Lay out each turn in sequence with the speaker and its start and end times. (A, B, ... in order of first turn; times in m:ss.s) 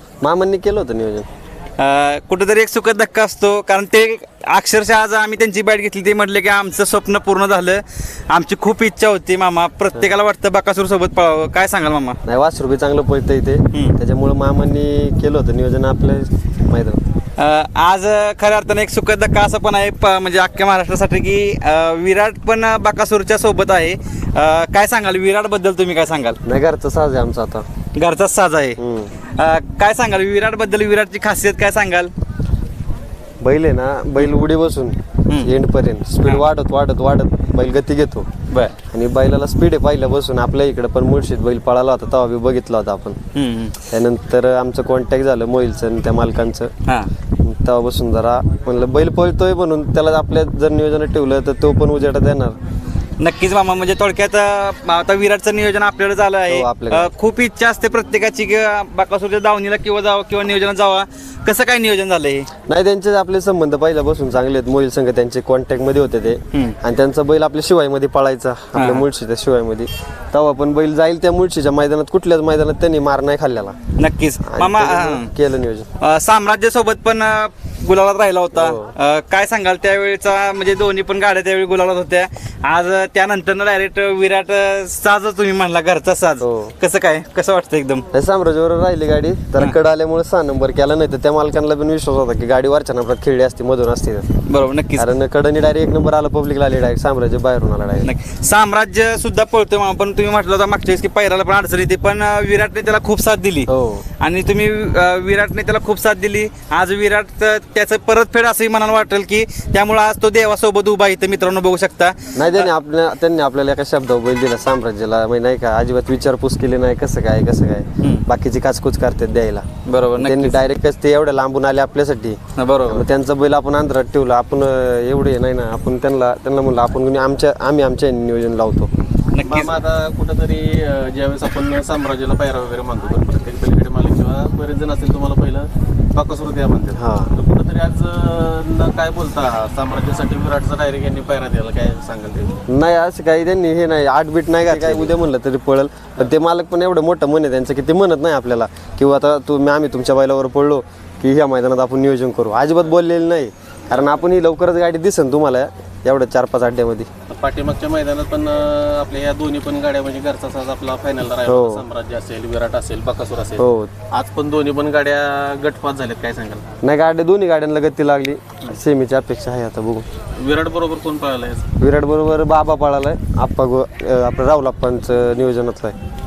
0:00.2-0:01.3 A
0:01.8-0:12.2 B
0:12.2-0:17.0 A
0:17.4-0:26.4 B
0:26.4-0:27.6 A
0:27.9-0:28.8 B
0:28.8-0:29.1 A
0:29.3-0:32.1 B
0:33.4-0:38.3 A
0:35.3-0:35.5 B
0:38.5-0:38.7 B
0:38.9-0:43.2 A
0:43.3-0:43.8 B
0:43.9-0:46.7 A
0:47.4-0:52.5 A
0:53.2-1:02.5 B
0:56.5-0:57.1 A
1:02.7-1:13.8 A
1:08.7-1:09.0 B
1:14.0-1:15.3 B
1:14.4-1:15.9 A
1:16.0-1:28.0 B
1:18.5-1:18.9 A
1:26.4-1:26.7 A
1:28.1-1:34.2 A
1:34.4-1:35.1 B
1:34.9-1:38.1 A
1:38.0-1:43.7 B
1:43.7-1:44.0 A
1:44.2-1:52.7 B
1:52.4-2:08.9 A
1:58.0-1:58.2 B
1:59.8-2:00.6 B
2:02.6-2:03.0 B
2:09.3-2:09.7 B
2:09.4-2:22.6 C
2:16.9-2:17.3 A
2:22.7-2:37.1 A
2:24.7-2:25.1 C
2:33.9-2:34.2 C
2:37.3-2:46.7 C
2:41.4-2:41.8 A
2:43.6-2:43.9 A
2:46.8-2:50.0 A
2:50.4-2:51.7 C
2:51.8-2:55.9 A